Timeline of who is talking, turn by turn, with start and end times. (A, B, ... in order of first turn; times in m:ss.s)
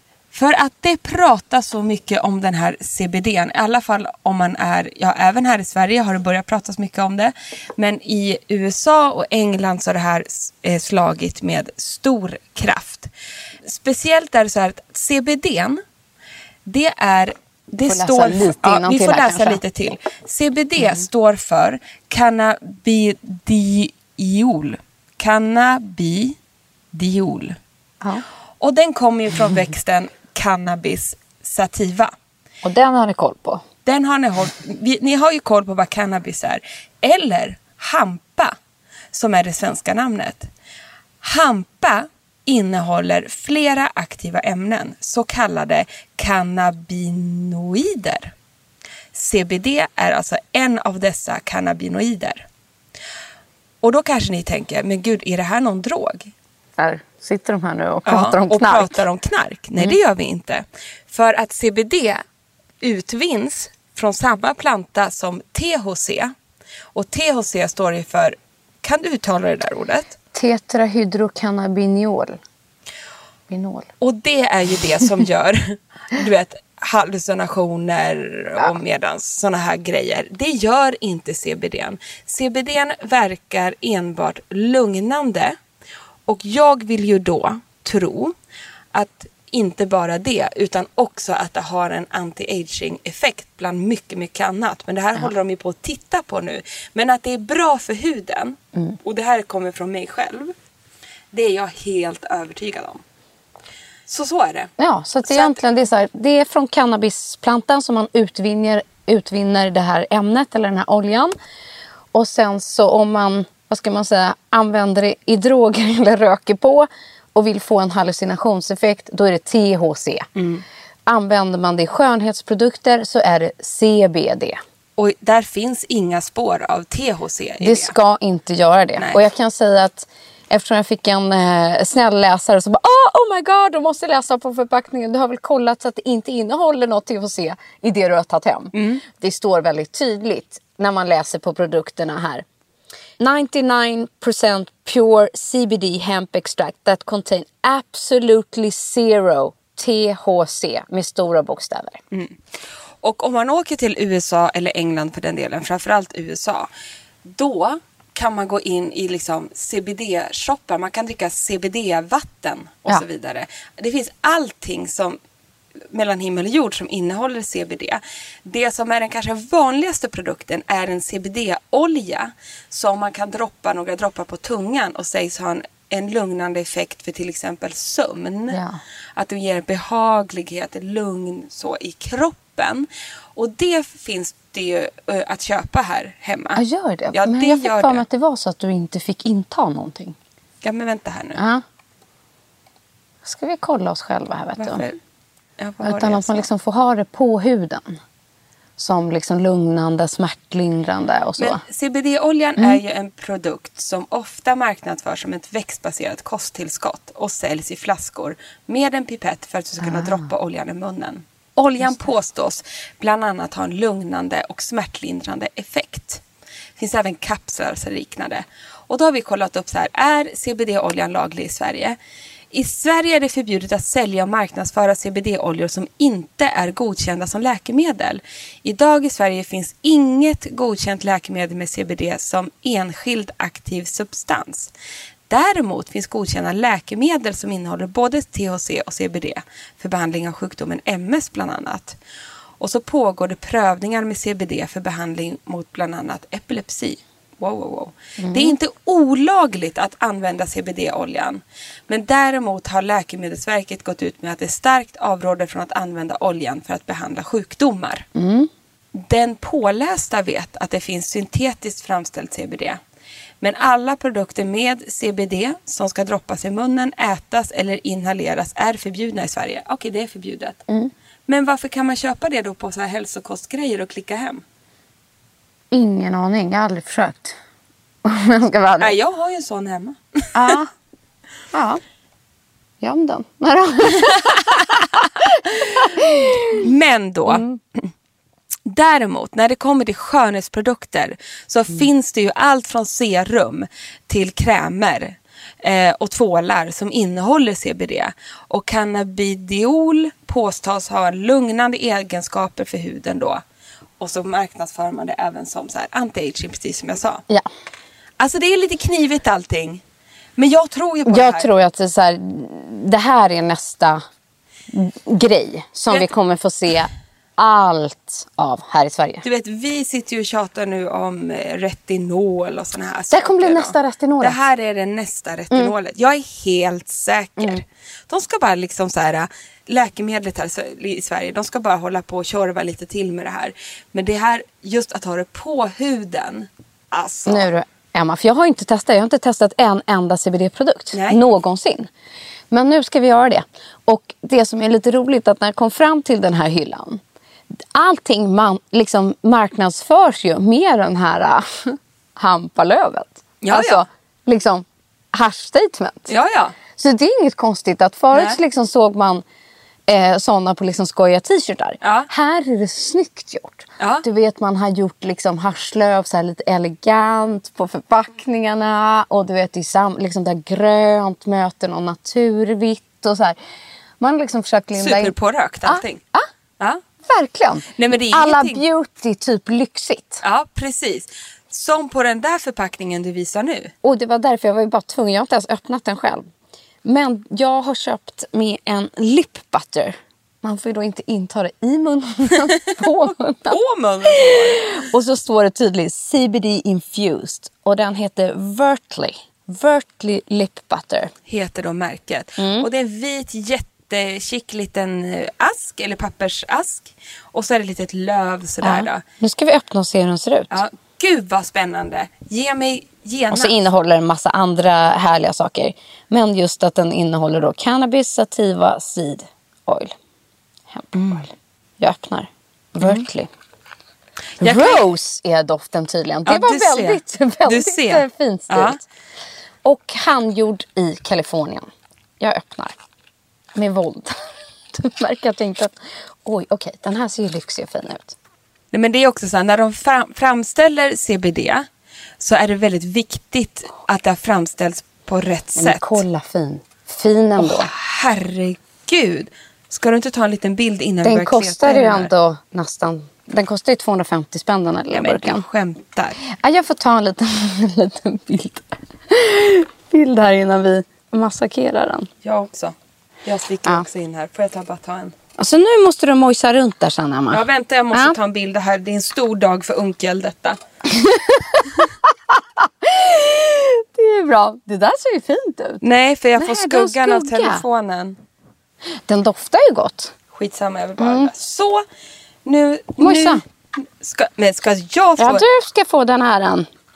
0:00.3-0:13.1 A
0:13.6-0:15.8 A
0:16.6-0:26.4 A
0:17.8-0:19.6 B
0:26.9-0:27.6 A
0:28.6-0:32.1 A
0:32.6-0:33.6 B
0:33.8-0:38.5 A
0:39.1-0:40.5 A
0:41.2-0:48.3 A
0:49.1-0:52.4 A
0:53.8-0:56.3 A
0:56.8-0:59.0 B
0:58.0-1:02.2 A
1:02.8-1:06.3 A
1:06.9-1:10.2 A
1:10.3-1:12.4 B
1:13.5-1:13.9 B
1:14.0-1:25.6 A
1:26.3-1:28.3 A
1:28.9-1:40.5 A
1:41.3-1:43.0 A
1:44.1-1:44.7 A
1:44.8-1:51.3 B
1:45.3-1:45.6 A
1:52.1-2:00.3 B
2:00.4-2:00.6 A
2:01.0-2:04.6 B
2:05.0-2:07.9 A
2:07.6-2:22.4 B
2:18.7-2:19.0 A
2:23.2-2:32.0 B
2:33.0-2:36.7 A
2:37.2-2:45.2 A
2:45.9-2:58.6 A
2:58.5-2:58.8 B
2:59.2-3:06.6 A
3:06.6-3:10.2 B
3:07.1-3:08.0 A
3:10.6-3:11.4 A
3:11.4-3:11.6 B
3:13.2-3:14.8 B
3:14.6-3:15.0 A
3:15.6-3:16.5 A
3:15.8-3:18.0 B
3:18.8-3:21.6 B
3:21.4-3:36.2 A
3:29.8-3:30.3 B
3:36.8-3:42.0 A
3:42.5-3:54.7 A
3:55.3-4:02.0 A
4:02.6-4:18.0 A
4:08.2-4:08.5 B
4:18.2-4:18.5 B
4:18.9-4:22.8 A
4:23.4-4:30.6 A
4:31.3-4:34.4 A
4:35.7-4:37.4 B
4:38.0-4:39.0 B
4:38.8-4:40.6 A
4:40.3-4:40.7 B
4:41.5-4:41.8 B
4:42.8-4:46.6 B
4:46.5-4:47.4 A
4:47.3-4:47.6 B
4:48.6-5:03.4 A
5:04.0-5:07.2 A
5:08.2-5:09.8 A
5:10.4-5:11.5 A
5:11.0-5:14.0 B
5:14.7-5:19.2 B
5:19.2-5:37.5 A
5:23.1-5:24.4 B
5:37.2-5:41.9 B
5:40.9-5:41.2 A
5:42.5-5:47.0 B
5:47.6-5:56.1 B
5:53.4-5:53.8 A
5:56.1-5:56.6 A
5:56.8-5:59.2 B
5:58.1-5:58.4 A
5:59.9-6:13.4 B
6:01.8-6:02.1 A
6:03.8-6:04.0 A
6:14.0-6:16.3 B
6:14.8-6:16.0 A
6:17.0-6:20.2 B
6:17.8-6:18.6 A
6:20.2-6:23.7 A
6:23.8-6:26.2 B
6:26.8-6:41.1 B
6:33.5-6:34.7 A
6:41.3-6:49.0 A
6:42.4-6:42.7 B
6:48.6-6:50.6 B
6:50.5-6:53.6 A
6:53.3-6:59.9 B
7:00.7-7:03.3 B
7:00.9-7:01.2 A
7:04.4-7:04.8 A
7:04.4-7:08.8 B
7:06.2-7:08.8 A
7:09.6-7:11.7 B
7:12.2-7:12.8 B
7:13.5-7:14.2 B
7:14.7-7:18.2 B
7:18.7-7:21.6 A
7:22.2-7:26.0 A
7:25.6-7:27.7 B
7:27.4-7:32.1 A
7:31.0-7:35.4 B
7:34.9-7:36.2 A
7:36.3-7:42.1 B
7:42.2-7:42.7 A
7:43.2-7:45.1 A
7:45.4-7:48.2 B
7:47.3-7:50.6 A
7:50.9-7:55.8 B
7:55.8-7:58.2 A
7:56.4-7:57.6 B
7:59.0-8:00.1 B
8:00.3-8:01.8 A
8:01.0-8:01.3 B
8:02.4-8:05.4 A
8:03.0-8:03.4 B
8:05.2-8:06.7 B